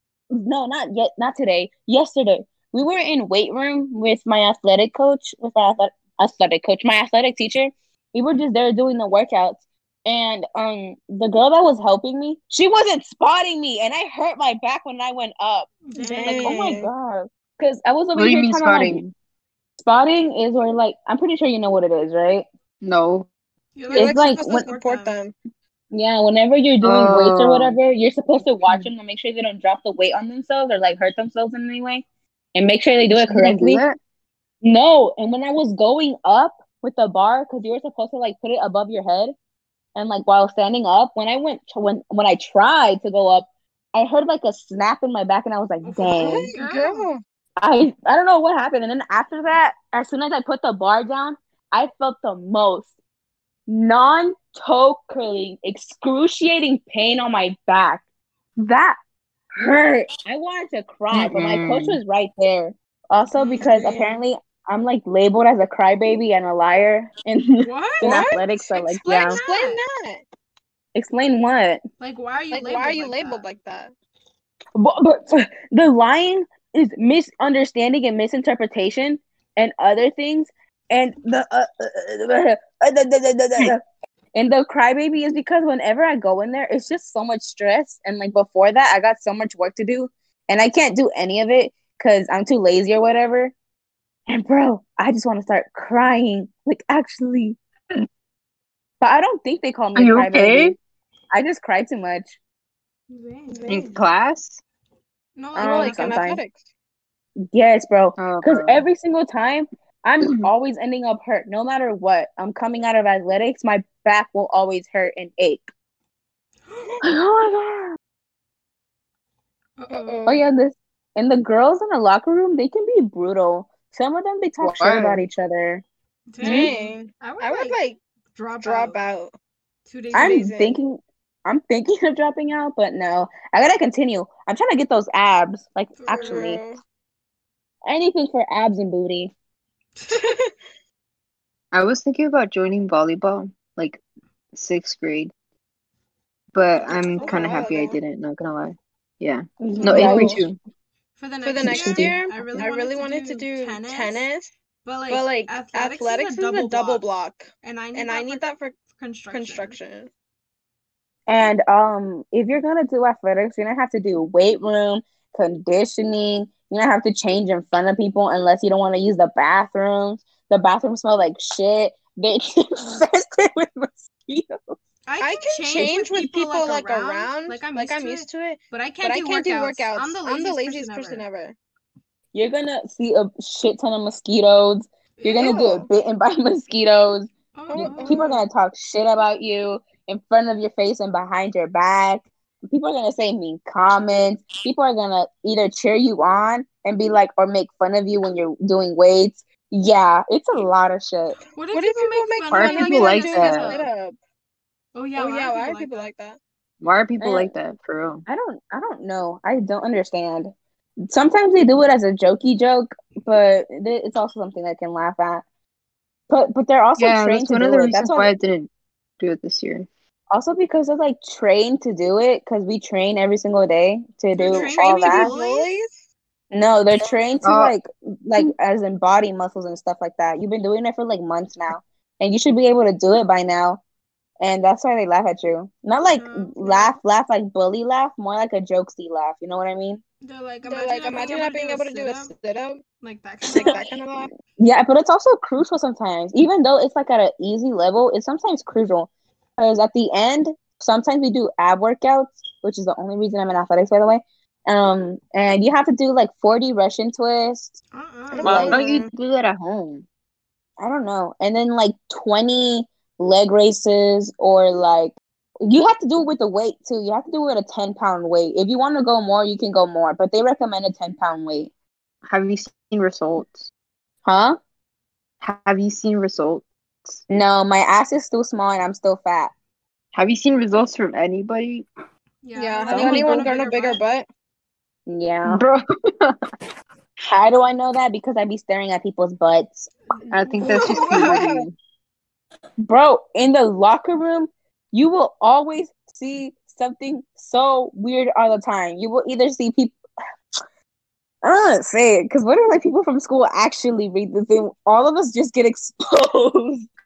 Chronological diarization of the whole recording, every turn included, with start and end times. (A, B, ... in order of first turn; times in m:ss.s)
0:00.3-0:19.0 A
0:15.9-0:16.7 B
0:16.0-0:16.9 C
0:18.2-0:19.1 D
0:19.8-0:22.4 A
0:22.8-0:23.3 D
0:23.8-0:25.2 B
0:23.9-0:25.4 C
0:23.9-0:24.7 A
0:25.9-0:32.0 A
0:26.8-0:27.8 D
0:32.6-0:33.8 A
0:33.2-0:34.0 D
0:34.6-0:39.3 A
0:40.0-0:46.5 A
0:45.8-0:47.1 B
0:46.1-0:47.2 C
0:47.6-0:52.9 A
0:53.7-0:58.0 A
0:58.6-0:59.0 A
0:59.6-1:09.4 A
1:01.1-1:02.0 D
1:03.4-1:03.7 B
1:03.6-1:04.2 C
1:07.6-1:08.2 B
1:08.0-1:08.6 C
1:08.7-1:09.8 B
1:09.2-1:10.2 C
1:11.0-1:11.8 A
1:12.0-1:13.4 B
1:12.5-1:13.9 C
1:14.8-1:23.8 A
1:24.4-1:33.5 A
1:34.3-1:37.6 A
1:39.0-1:40.8 A
1:40.0-1:40.8 D
1:41.3-1:42.4 A
1:43.1-1:43.8 B
1:43.5-1:44.0 C
1:43.7-1:44.6 D
1:45.4-1:46.2 B
1:45.6-1:46.4 A
1:45.6-1:46.6 C
1:47.4-1:55.7 A
1:48.2-1:48.9 D
1:50.2-1:50.5 D
1:56.7-1:57.0 B
1:57.0-1:58.0 A
1:59.8-2:00.3 B
1:59.9-2:00.4 C
2:00.3-2:05.8 A
2:04.6-2:05.2 D
2:06.3-2:07.8 B
2:06.4-2:06.7 A
2:06.4-2:08.0 C
2:08.4-2:09.0 B
2:08.6-2:09.3 C
2:09.9-2:10.5 B
2:10.1-2:10.7 C
2:10.2-2:16.6 A
2:16.0-2:16.5 B
2:16.1-2:16.8 C
2:17.9-2:19.3 A
2:20.1-2:20.5 C
2:21.7-2:24.0 D
2:24.5-2:25.3 D
2:26.5-2:30.6 D
2:26.9-2:28.0 C
2:26.9-2:27.6 B
2:29.6-2:30.4 A
2:29.8-2:30.2 B
2:29.9-2:30.4 C
2:31.2-2:34.3 B
2:31.4-2:34.5 C
2:31.6-2:32.7 A
2:34.8-2:37.0 B
2:35.1-2:38.8 C
2:37.6-2:39.8 B
2:39.3-2:40.1 C
2:41.3-2:54.8 A
2:55.1-3:01.2 B
2:55.2-3:01.6 C
3:02.3-3:21.4 A
3:05.2-3:05.5 B
3:05.4-3:05.9 C
3:07.6-3:08.4 B
3:07.7-3:08.3 C
3:21.6-3:23.9 B
3:21.7-3:24.2 C
3:22.5-3:23.7 D
3:25.0-3:26.1 B
3:25.2-3:26.4 C
3:26.8-3:28.2 D
3:27.2-3:27.5 A
3:28.3-3:30.5 A
3:31.0-3:35.4 A
3:36.3-3:38.3 A
3:37.0-3:39.9 D
3:40.3-3:45.3 A
3:44.4-3:45.7 B
3:44.4-3:46.0 C
3:46.5-3:53.8 A
3:47.4-3:47.7 D
3:54.4-4:00.0 A
3:56.1-3:57.0 B
4:00.2-4:02.3 B
4:00.7-4:02.8 C
4:03.0-4:03.9 B
4:03.5-4:03.8 A
4:03.5-4:04.3 C
4:04.6-4:17.8 A
4:17.9-4:18.8 B
4:18.3-4:19.1 C
4:18.4-4:18.8 A
4:18.4-4:20.0 D
4:20.8-4:31.7 A
4:32.2-4:33.7 D
4:34.2-4:34.6 A
4:35.4-4:37.2 D
4:37.3-4:39.5 A
4:40.1-4:41.9 D
4:42.4-4:44.0 B
4:42.6-4:44.3 C
4:42.9-4:43.4 A
4:45.1-4:45.6 A
4:45.5-4:46.4 D
4:47.3-4:49.9 A
4:50.1-4:51.4 B
4:50.3-4:51.8 D
4:50.6-4:51.7 C
4:52.8-5:00.0 A
5:01.4-5:06.9 A